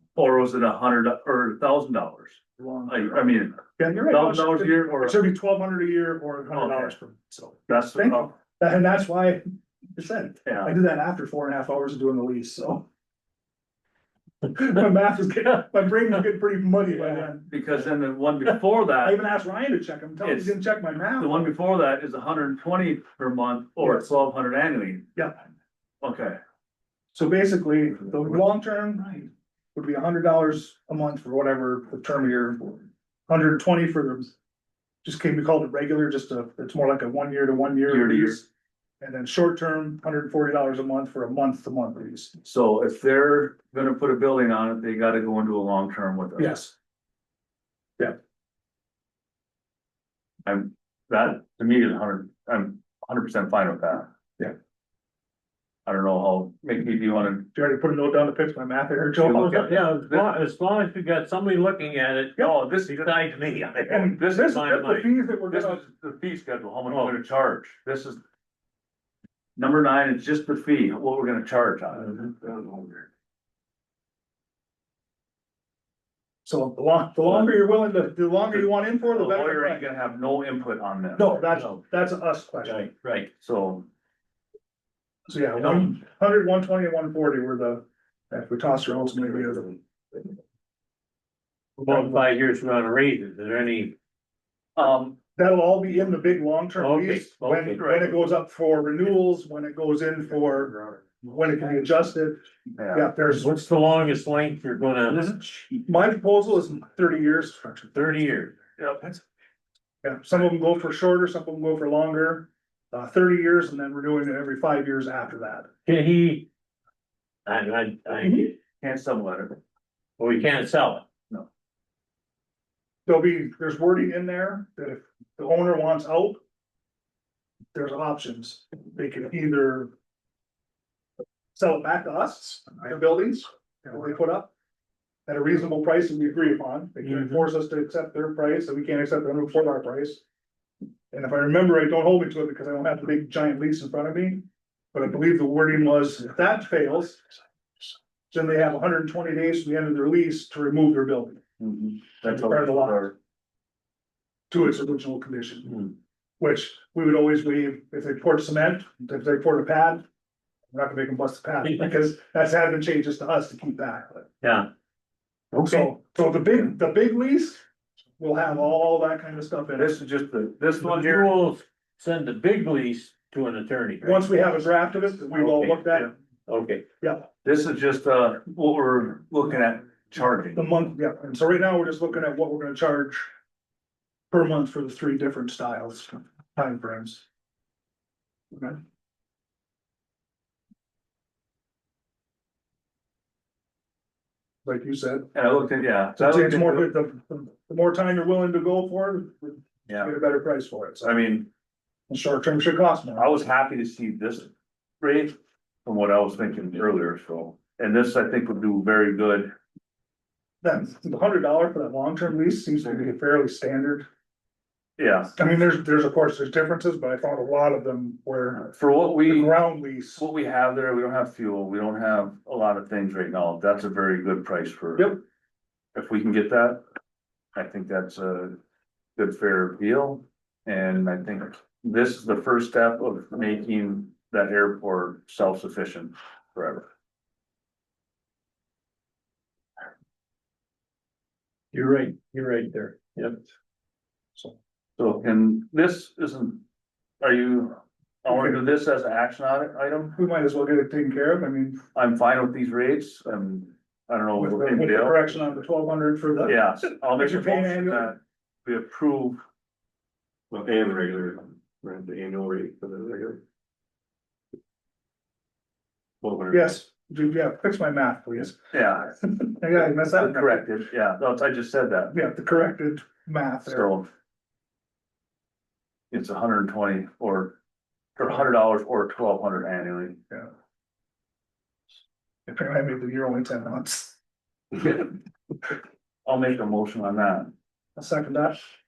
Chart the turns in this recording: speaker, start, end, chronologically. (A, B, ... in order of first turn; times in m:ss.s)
0:00.2-0:05.2 A
0:02.6-0:09.4 B
0:06.5-0:06.9 A
0:07.7-0:08.3 A
0:10.0-0:12.9 B
0:10.4-0:10.7 A
0:14.5-0:17.5 B
0:17.5-0:19.2 A
0:19.0-0:21.5 B
0:20.2-0:20.6 A
0:21.2-0:25.1 A
0:26.0-0:26.4 A
0:27.1-0:34.3 B
0:35.0-0:38.5 B
0:37.9-0:38.4 A
0:39.0-0:42.3 B
0:42.4-0:46.6 A
0:46.4-0:46.7 B
0:50.4-0:54.1 A
0:55.9-0:57.5 A
0:57.5-0:59.7 B
0:59.2-1:05.1 C
0:59.2-1:00.3 A
1:02.4-1:03.2 A
1:03.9-1:05.8 B
1:04.0-1:04.6 A
1:05.5-1:08.2 A
1:06.9-1:07.2 C
1:09.6-1:12.3 A
1:12.3-1:13.0 D
1:16.4-1:19.9 B
1:18.5-1:21.4 A
1:21.2-1:22.9 B
1:21.5-1:21.8 C
1:22.6-1:23.3 C
1:23.4-1:23.8 A
1:25.3-1:29.8 B
1:31.8-1:33.9 C
1:31.9-1:32.2 B
1:34.8-1:35.2 A
1:35.4-1:43.5 B
1:36.8-1:37.8 C
1:37.8-1:38.2 A
1:42.8-1:43.1 A
1:43.3-1:45.7 C
1:45.8-1:48.0 B
1:47.9-1:48.6 C
1:48.8-1:49.2 A
1:50.0-1:55.7 B
1:55.8-1:56.5 C
1:57.4-1:58.5 C
1:58.2-1:58.5 B
1:58.8-1:59.6 A
2:00.2-2:01.0 C
2:03.0-2:06.4 B
2:07.7-2:09.9 B
2:11.5-2:14.5 B
2:15.3-2:20.2 B
2:21.1-2:27.2 B
2:28.3-2:31.4 B
2:31.6-2:33.1 A
2:32.2-2:33.1 B
2:34.5-2:40.0 B
2:40.7-2:44.3 B
2:44.4-2:44.7 C
2:45.5-2:45.9 C
2:45.6-2:47.6 B
2:48.2-2:50.0 B
2:49.8-2:51.3 A
2:50.8-2:54.3 C
2:54.0-2:56.1 B
2:55.3-2:55.8 C
2:56.5-2:56.8 C
2:57.0-2:57.2 B
2:57.4-3:00.7 A
3:00.6-3:03.3 B
3:04.3-3:07.2 B
3:08.5-3:08.8 B
3:14.7-3:15.3 B
3:15.3-3:16.9 A
3:16.2-3:21.1 B
3:19.9-3:20.1 A
3:21.0-3:21.5 A
3:22.1-3:23.2 B
3:23.2-3:29.5 A
3:30.6-3:34.1 B
3:35.0-3:35.3 A
3:35.4-3:38.7 B
3:38.6-3:39.6 A
3:39.2-3:40.2 B
3:40.2-3:45.2 A
3:46.0-3:46.8 A
3:47.6-3:48.6 A
3:49.2-3:56.9 A
4:01.7-4:03.4 C
4:05.0-4:06.6 A
4:07.2-4:10.2 A
4:08.3-4:08.6 B
4:10.2-4:11.8 B
4:11.9-4:15.3 A
4:14.4-4:18.1 B
4:16.4-4:19.4 A
4:20.5-4:23.4 D
4:26.2-4:26.8 D
4:26.5-4:28.6 B
4:28.7-4:29.2 A
4:29.3-4:30.6 B
4:29.8-4:32.1 A
4:32.1-4:33.9 B
4:33.6-4:34.1 A
4:36.1-4:37.6 A
4:38.2-4:40.2 A
4:42.5-4:44.2 B
4:46.2-4:47.5 A
4:48.0-4:48.6 B